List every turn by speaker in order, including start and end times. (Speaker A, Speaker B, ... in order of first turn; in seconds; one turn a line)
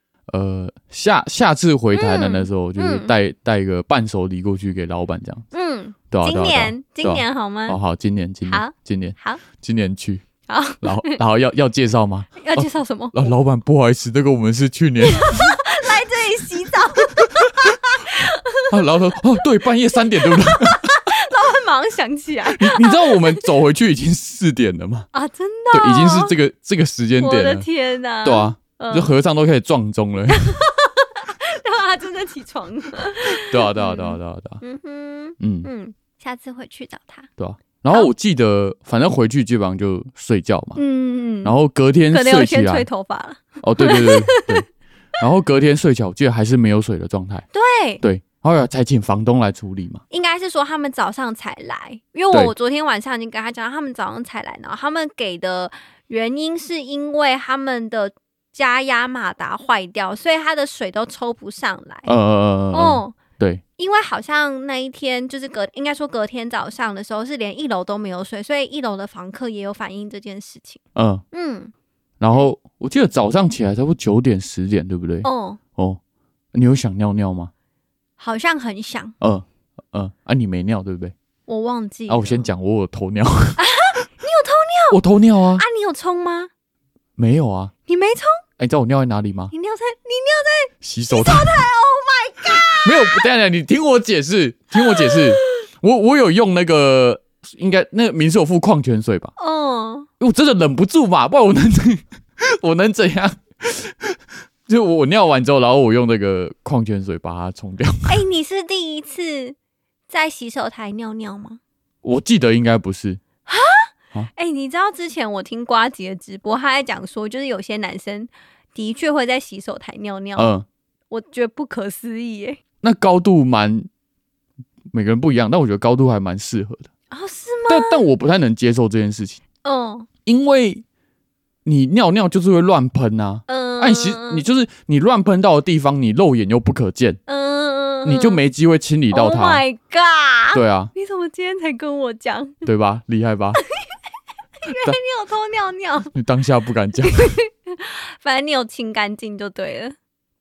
Speaker A: 0.3-5.4
Speaker B: 1.9-3.1
Speaker B: 5.5-7.8
Speaker A: 6.1-10.2
Speaker B: 8.4-9.4
Speaker B: 10.5-11.2
Speaker A: 10.8-15.6
Speaker B: 12.4-13.3
Speaker B: 15.0-18.7
Speaker A: 17.4-17.7
Speaker A: 18.7-21.1
Speaker B: 19.9-23.4
Speaker A: 22.5-25.1
Speaker B: 25.1-26.3
Speaker A: 25.7-27.7
Speaker B: 27.2-29.1
Speaker A: 28.2-30.5
Speaker B: 30.3-37.3
Speaker A: 33.4-34.6
Speaker A: 35.4-35.7
Speaker A: 37.4-40.8
Speaker B: 40.8-41.5
Speaker A: 41.4-42.9
Speaker B: 42.1-44.6
Speaker A: 43.6-44.6
Speaker A: 45.2-47.4
Speaker B: 47.5-48.0
Speaker A: 48.0-50.0
Speaker B: 50.1-62.1
Speaker A: 62.0-63.6
Speaker B: 62.7-63.2
Speaker B: 63.8-70.8
Speaker A: 71.0-71.2
Speaker B: 71.3-71.7
Speaker A: 72.2-76.0
Speaker B: 75.2-75.6
Speaker A: 76.5-77.5
Speaker B: 78.2-79.1
Speaker A: 79.2-81.1
Speaker B: 81.5-82.5
Speaker A: 82.1-83.6
Speaker B: 83.6-85.0
Speaker A: 84.9-85.6
Speaker B: 85.6-86.5
Speaker A: 87.2-87.7
Speaker B: 87.9-88.4
Speaker A: 88.6-89.5
Speaker B: 89.5-93.2
Speaker A: 90.8-91.7
Speaker A: 92.8-99.3
Speaker B: 94.8-95.4
Speaker B: 99.4-100.1
Speaker A: 100.2-108.2
Speaker B: 108.1-109.5
Speaker B: 110.1-111.6
Speaker A: 112.0-113.2
Speaker B: 113.5-120.5
Speaker A: 120.3-120.7
Speaker B: 121.1-122.6
Speaker A: 122.8-123.9
Speaker A: 124.9-126.9
Speaker B: 127.1-128.1
Speaker A: 127.7-129.4
Speaker B: 129.6-130.1
Speaker A: 130.2-130.8
Speaker A: 131.6-137.2
Speaker B: 133.5-134.4
Speaker B: 137.3-138.4
Speaker A: 138.0-139.6
Speaker B: 139.1-142.6
Speaker A: 140.5-140.9
Speaker A: 142.6-143.6
Speaker B: 144.6-146.1
Speaker A: 144.7-144.9
Speaker A: 146.1-147.3
Speaker B: 147.0-149.9